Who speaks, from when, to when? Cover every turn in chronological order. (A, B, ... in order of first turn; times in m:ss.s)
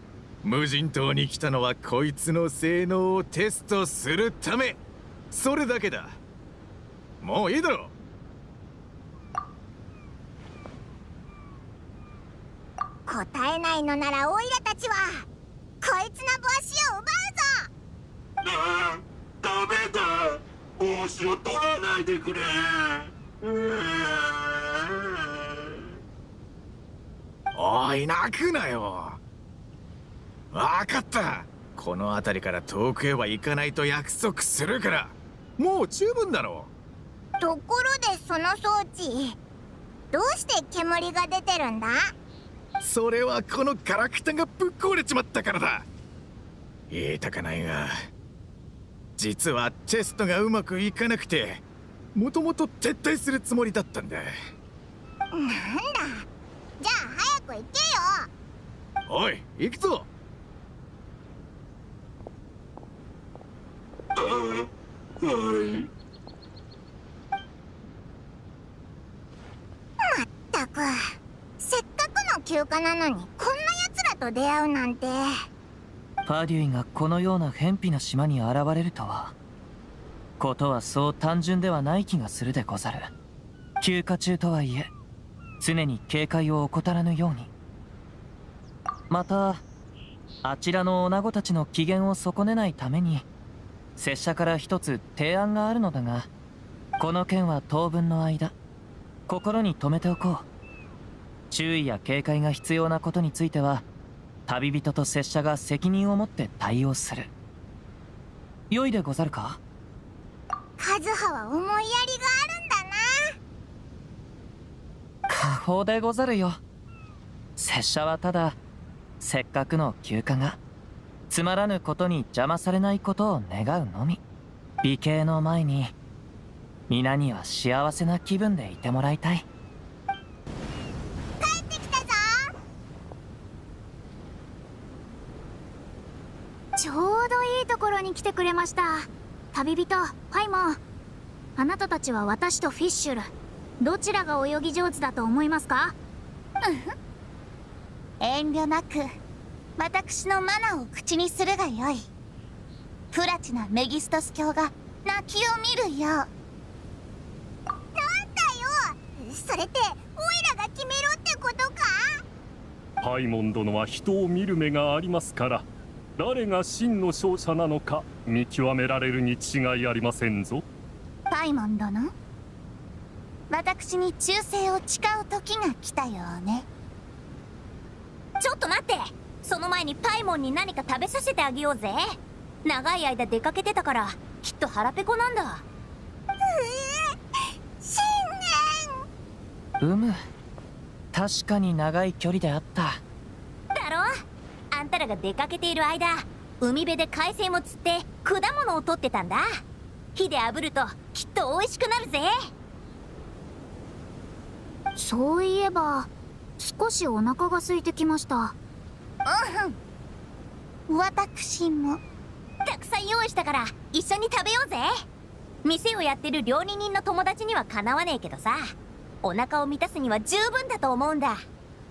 0:00.4-0:04.8 A
0:05.3-0:06.2 A
0:07.2-0:07.9 A
0:13.1-0:15.3 B
0:15.8-0:17.7 B
0:18.4-0:25.0 C
0:27.5-0:29.2 A
0:30.5-0:36.7 A
0:37.4-0:39.4 B
0:40.1-0:42.1 B
0:42.8-0:45.9 A
0:46.9-0:48.1 A
0:49.2-0:51.6 A
0:52.1-0:54.3 A
0:55.3-0:56.3 B
0:56.8-0:58.3 B
0:59.1-1:00.1 A
1:04.2-1:04.7 C
1:05.2-1:05.9 C
1:10.0-1:15.3 B
1:16.3-1:19.3 D
1:20.4-1:23.1 D
1:23.8-1:24.9 D
1:25.6-1:27.5 D
1:29.1-1:29.6 D
1:30.4-1:33.3 D
1:34.0-1:36.3 D
1:37.0-1:38.5 D
1:39.3-1:40.4 D
1:41.5-1:43.8 D
1:44.5-1:47.3 D
1:48.7-1:49.6 D
1:50.8-1:53.3 B
1:55.3-1:56.6 D
1:57.6-1:58.6 D
1:59.2-2:00.6 D
2:01.3-2:04.2 D
2:04.8-2:05.9 D
2:06.9-2:09.4 D
2:11.4-2:12.5 B
2:16.8-2:20.8 E
2:21.6-2:26.0 E
2:26.6-2:26.9 F
2:28.2-2:29.0 F
2:29.8-2:32.1 F
2:33.1-2:36.3 F
2:38.0-2:42.2 B
2:43.0-2:50.6 G
2:51.3-2:52.1 F
2:53.5-2:56.7 F
2:58.4-3:02.0 H
3:02.6-3:05.6 H
3:06.4-3:07.2 B
3:07.8-3:09.0 B
3:09.8-3:10.2 D
3:11.1-3:13.0 D
3:13.7-3:14.1 H
3:14.7-3:19.4 H
3:20.1-3:22.3 H
3:25.0-3:28.6 E
3:29.3-3:29.8 F
3:30.9-3:32.0 F
3:32.6-3:34.9 H
3:35.6-3:38.7 H
3:39.2-3:41.4 H